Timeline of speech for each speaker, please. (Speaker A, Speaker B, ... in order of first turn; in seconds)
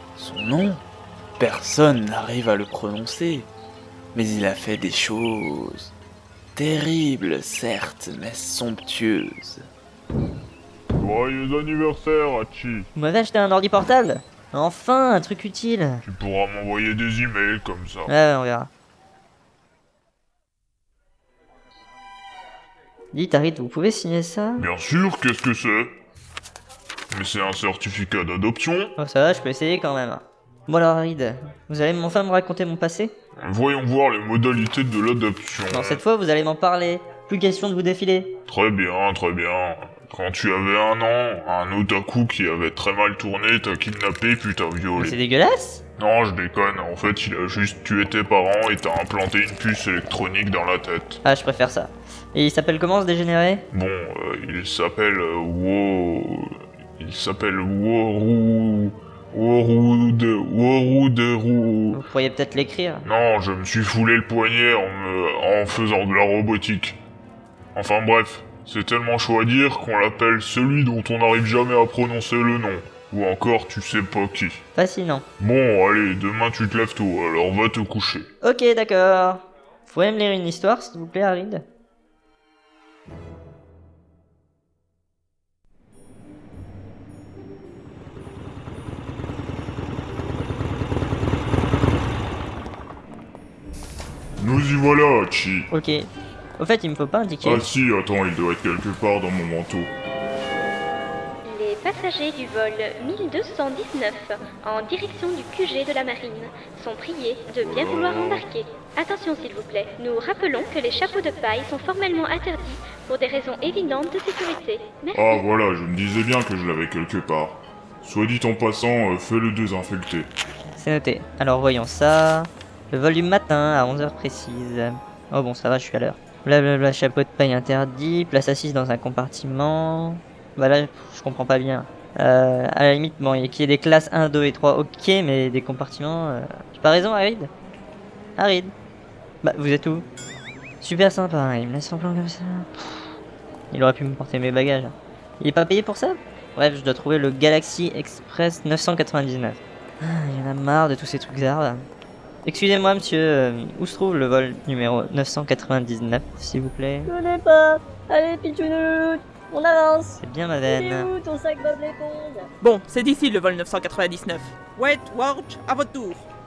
Speaker A: 0.2-0.8, 1.4-3.5, 4.1-5.9, 6.6-9.7
Speaker B: 11.0-12.9, 16.0-18.1, 24.6-25.9, 27.1-28.9, 33.4-36.0, 38.5-45.2, 46.0-51.2, 53.7-56.5, 57.0-62.0, 63.0-67.0, 67.8-74.6, 75.4-78.3, 94.4-95.7, 97.4-99.9, 107.6-108.5, 115.1-120.3
Speaker C: 13.0-16.0, 18.1-18.7, 23.1-24.7, 29.0-33.1, 35.7-38.4, 45.0-45.8, 51.2-53.6, 61.9-63.1, 74.8-75.2, 78.4-81.6, 95.7-97.7, 120.8-137.5, 138.4-138.7, 139.4-140.1, 140.8-143.0, 143.7-151.8, 152.4-157.1, 160.2-161.1
Speaker D: 101.5-115.4
Speaker E: 157.1-162.4
Speaker F: 162.6-166.2